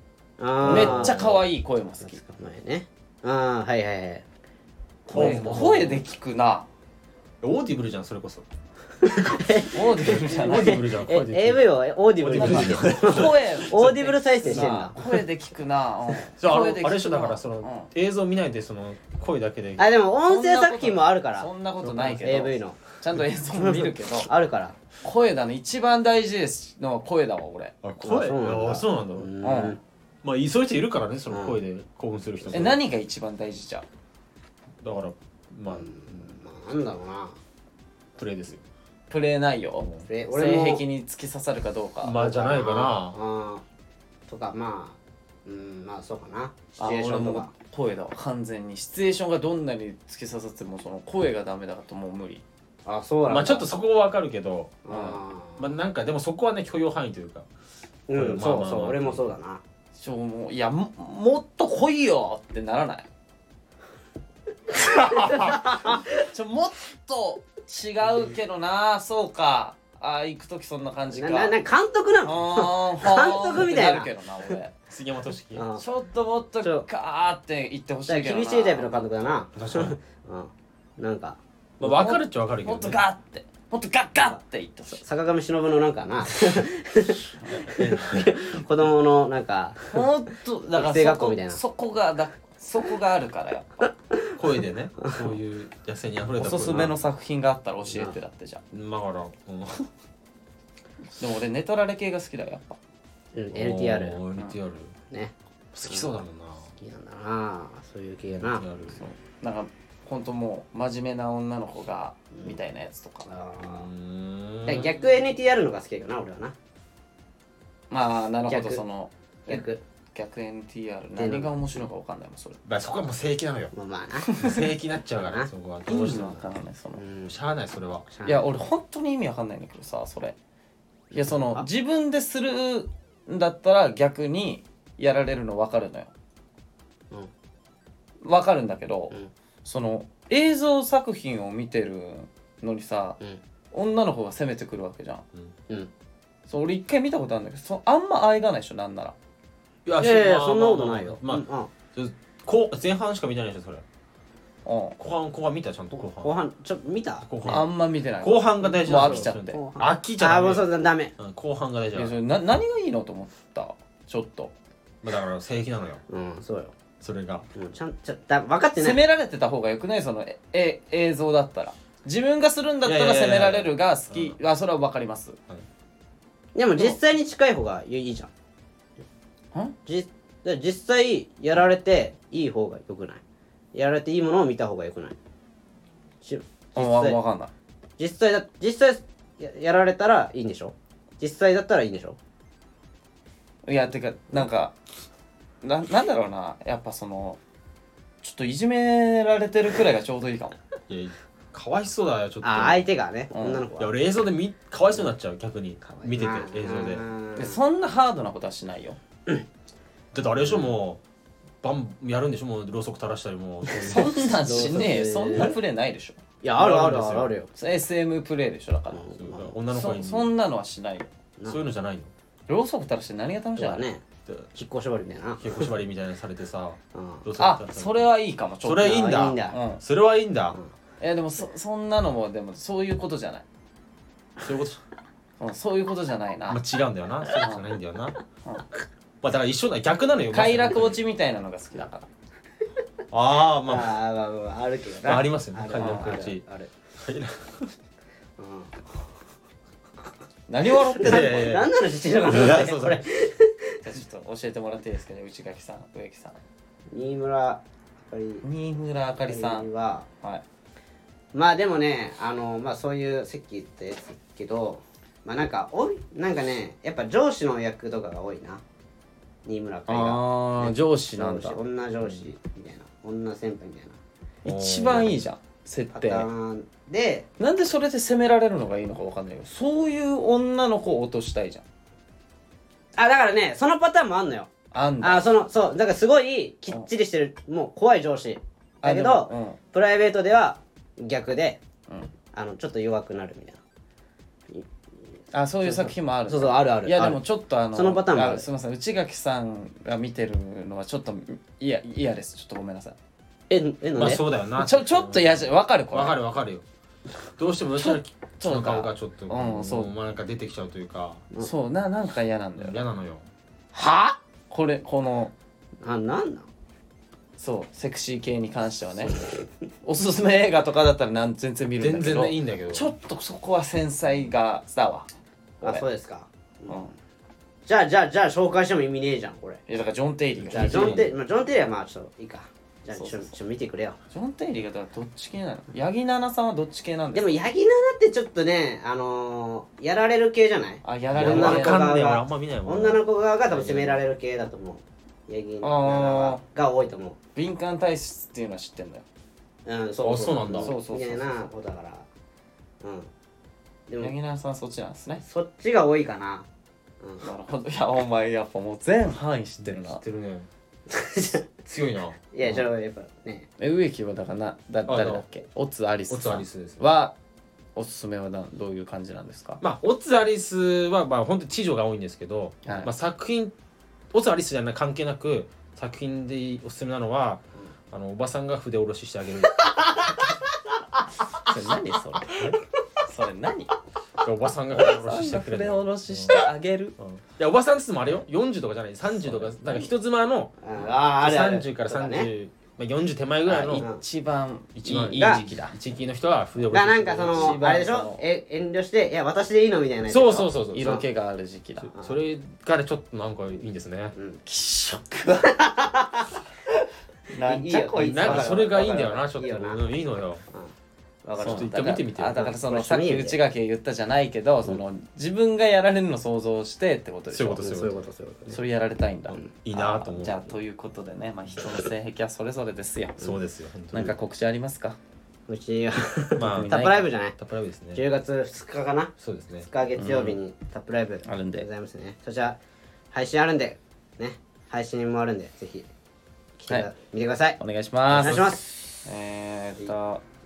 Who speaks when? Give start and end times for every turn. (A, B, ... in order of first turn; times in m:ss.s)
0:00.4-0:01.4 A
0:00.6-0:01.3 B
0:00.7-0:02.2 C
0:02.0-0:04.3 A
0:05.1-0:06.7 C
0:05.1-0:06.0 B
0:05.1-0:05.4 A
0:07.4-0:08.5 B
0:09.0-0:15.0 A
0:09.1-0:09.6 B
0:09.7-0:10.9 C
0:10.1-0:11.6 B
0:12.2-0:13.7 B
0:12.4-0:17.9 C
0:16.4-0:19.9 B
0:19.8-0:22.8 A
0:20.3-0:24.3 C
0:21.9-0:22.2 B
0:23.6-0:24.8 A
0:25.0-0:27.7 C
0:27.8-0:29.3 B
0:28.0-0:29.8 A
0:29.4-0:29.8 C
0:30.2-0:32.8 B
0:31.3-0:31.6 A
0:32.4-0:32.7 A
0:32.5-0:33.9 C
0:34.8-0:35.9 B
0:35.7-0:37.4 A
0:38.2-0:38.6 B
0:39.1-0:42.2 C
0:39.8-0:40.1 B
0:40.1-0:40.8 A
0:42.0-0:43.2 B
0:42.1-0:43.6 A
0:44.3-0:47.5 A
0:46.8-0:52.4 C
0:52.8-0:53.7 A
0:53.3-0:54.8 B
0:54.8-0:55.7 A
0:54.9-0:55.2 C
0:55.6-0:57.5 B
0:58.1-0:59.6 A
0:58.1-0:59.2 B
1:00.0-1:03.1 C
1:04.7-1:05.7 B
1:05.5-1:06.0 A
1:05.6-1:11.5 C
1:11.1-1:14.5 A
1:12.2-1:14.8 C
1:14.9-1:15.7 B
1:15.6-1:15.9 A
1:15.8-1:19.3 C
1:16.6-1:16.9 A
1:18.1-1:21.4 A
1:19.6-1:20.0 B
1:21.8-1:23.0 B
1:21.8-1:25.0 C
1:24.9-1:30.0 A
1:27.6-1:28.3 B
1:29.9-1:33.9 C
1:30.7-1:31.6 A
1:34.4-1:37.0 B
1:36.4-1:38.6 C
1:38.7-1:39.9 B
1:41.2-1:42.8 C
1:43.3-1:44.2 A
1:43.5-1:45.0 B
1:45.1-1:45.3 A
1:45.7-1:46.7 B
1:45.9-1:46.2 A
1:46.8-1:48.7 A
1:48.3-1:49.0 B
1:49.0-1:53.3 C
1:53.2-1:53.9 A
1:53.6-1:54.9 B
1:54.6-1:56.6 A
1:57.9-2:02.6 C
1:58.5-1:58.8 A
1:59.5-1:59.8 A
2:01.2-2:01.5 A
2:02.6-2:03.7 B
2:03.7-2:04.3 A
2:04.3-2:04.6 C
2:04.4-2:06.4 B
2:05.2-2:06.4 A
2:05.9-2:07.0 C
2:07.0-2:07.3 A
2:07.3-2:08.1 B
2:08.1-2:08.5 A
2:08.2-2:10.4 C
2:11.1-2:16.1 C
2:11.1-2:11.7 A
2:18.2-2:23.2 C
2:23.7-2:25.2 C
2:26.5-2:29.2 C
2:29.9-2:33.8 B
2:30.0-2:31.7 A
2:34.6-2:35.0 C
2:35.0-2:36.4 B
2:36.2-2:37.3 A
2:37.2-2:42.1 B
2:37.4-2:39.6 C
2:38.9-2:41.1 A
2:41.9-2:44.5 C
2:45.0-2:46.0 B
2:46.1-2:46.7 A
2:47.0-2:47.5 B
2:47.6-2:49.0 A
2:48.8-2:55.4 C
2:52.8-2:54.4 B
2:56.6-2:58.3 A
2:59.9-3:03.2 A
3:03.7-3:05.2 A
3:06.2-3:07.2 A
3:06.8-3:07.5 C
3:08.0-3:12.2 A
3:13.7-3:14.8 C
3:15.6-3:17.4 C
3:18.2-3:20.6 C
3:20.9-3:22.9 B
3:22.4-3:24.0 A
3:23.3-3:23.7 C
3:23.8-3:27.1 B
3:25.8-3:27.6 A
3:27.4-3:29.0 C
3:30.1-3:31.0 B
3:30.4-3:30.7 A
3:31.6-3:34.8 B
3:33.8-3:36.2 C
3:33.9-3:35.6 A
3:36.4-3:37.5 A
3:36.6-3:37.3 B
3:37.5-3:39.1 C
3:38.9-3:39.5 A
3:39.2-3:40.3 B
3:39.7-3:41.1 C
3:41.5-3:42.1 B
3:42.5-3:43.8 C
3:43.6-3:44.0 A
3:44.3-3:44.5 B
3:44.6-3:45.7 A
3:45.4-3:48.1 B
3:46.9-3:47.3 A
3:47.4-3:49.8 C
3:48.6-3:50.6 B
3:48.9-3:49.6 A
3:51.0-3:53.4 C
3:54.4-3:54.8 B
3:55.4-3:56.6 C
3:56.5-3:58.2 B
3:57.4-3:57.6 C
3:59.2-4:01.0 B
4:00.3-4:02.1 C
4:03.1-4:03.9 B
4:03.7-4:06.7 A
4:05.0-4:06.4 B
4:05.8-4:06.1 C
4:07.0-4:07.7 B
4:08.4-4:08.7 A
4:10.5-4:11.4 C
4:10.7-4:13.8 A
4:11.0-4:11.7 B
4:12.2-4:13.0 B
4:13.8-4:16.4 C
4:16.9-4:18.4 A
4:18.4-4:19.7 C
4:19.3-4:20.1 A
4:21.3-4:28.6 A
4:29.4-4:34.0 A
4:29.9-4:31.6 C
4:34.4-4:36.3 C
4:34.5-4:35.2 B
4:35.9-4:37.3 A
4:37.4-4:41.6 C
4:43.0-4:44.5 A
4:44.7-4:45.3 C
4:45.0-4:51.6 A
4:48.8-4:49.6 C
4:52.3-4:53.6 A
4:55.3-5:03.0 C
4:55.6-4:57.2 A
4:57.7-4:58.5 A
5:03.5-5:04.2 A
5:04.0-5:06.6 B
5:04.6-5:06.2 C
5:07.4-5:11.2 B
5:07.8-5:09.9 C
5:11.4-5:12.8 C
5:12.6-5:13.3 B
5:13.7-5:14.2 A
5:14.5-5:15.3 C
5:15.8-5:16.5 A
5:17.4-5:19.3 C
5:19.8-5:25.1 C
5:21.8-5:22.9 B
5:25.6-5:26.9 A
5:26.7-5:26.9 C
5:27.7-5:29.6 A
5:29.7-5:31.1 C
5:30.5-5:31.1 B
5:30.5-5:34.0 A
5:32.9-5:33.3 C
5:34.1-5:37.4 C
5:37.2-5:47.2 A
5:40.8-5:42.0 C
5:41.1-5:44.0 B
5:45.6-5:46.4 C
5:47.4-5:49.0 C
5:49.7-5:52.1 A
5:50.0-5:50.8 B
5:50.6-5:51.5 C
5:52.8-5:53.1 A
5:53.9-5:54.1 A
5:54.0-5:55.2 C
5:55.2-5:56.5 A
5:57.2-6:00.0 C
5:59.6-6:00.5 B
6:00.9-6:01.4 A
6:01.7-6:02.2 B
6:02.3-6:03.5 A
6:03.6-6:07.2 C
6:04.9-6:05.2 B
6:06.1-6:06.8 B
6:07.8-6:09.6 C
6:09.6-6:13.5 B
6:12.6-6:12.9 C
6:14.1-6:19.8 B
6:21.5-6:22.4 C
6:22.3-6:22.6 B
6:23.0-6:23.7 C
6:24.2-6:26.4 B
6:24.7-6:27.0 C
6:27.0-6:30.6 B
6:29.2-6:29.9 C
6:30.6-6:32.3 A
6:31.1-6:33.9 B
6:33.5-6:35.7 C
6:33.8-6:34.0 A
6:34.8-6:37.6 B
6:35.2-6:35.4 A
6:36.7-6:41.0 A
6:37.3-6:38.2 C
6:40.1-6:41.0 B
6:40.7-6:41.9 C
6:41.9-6:44.2 B
6:44.2-6:44.4 A
6:44.4-6:45.6 C
6:45.4-6:46.3 A
6:47.3-6:48.7 C
6:47.4-6:49.8 A
6:48.0-6:50.4 B
6:51.2-6:53.4 A
6:51.4-6:57.7 C
6:51.4-6:52.5 B
6:57.3-6:58.0 B
6:57.6-6:58.6 A
6:58.5-7:03.3 C
6:59.6-7:00.5 B
7:03.2-7:04.1 B
7:03.9-7:05.0 C
7:05.5-7:07.4 A
7:06.4-7:06.8 B
7:06.5-7:07.1 C
7:07.4-7:08.0 B
7:07.9-7:12.6 A
7:09.2-7:09.7 B
7:10.0-7:10.4 C
7:11.2-7:11.7 C
7:13.1-7:15.9 A
7:16.6-7:17.6 A
7:17.6-7:18.4 C
7:18.1-7:18.7 A
7:18.1-7:18.6 B
7:19.0-7:20.2 C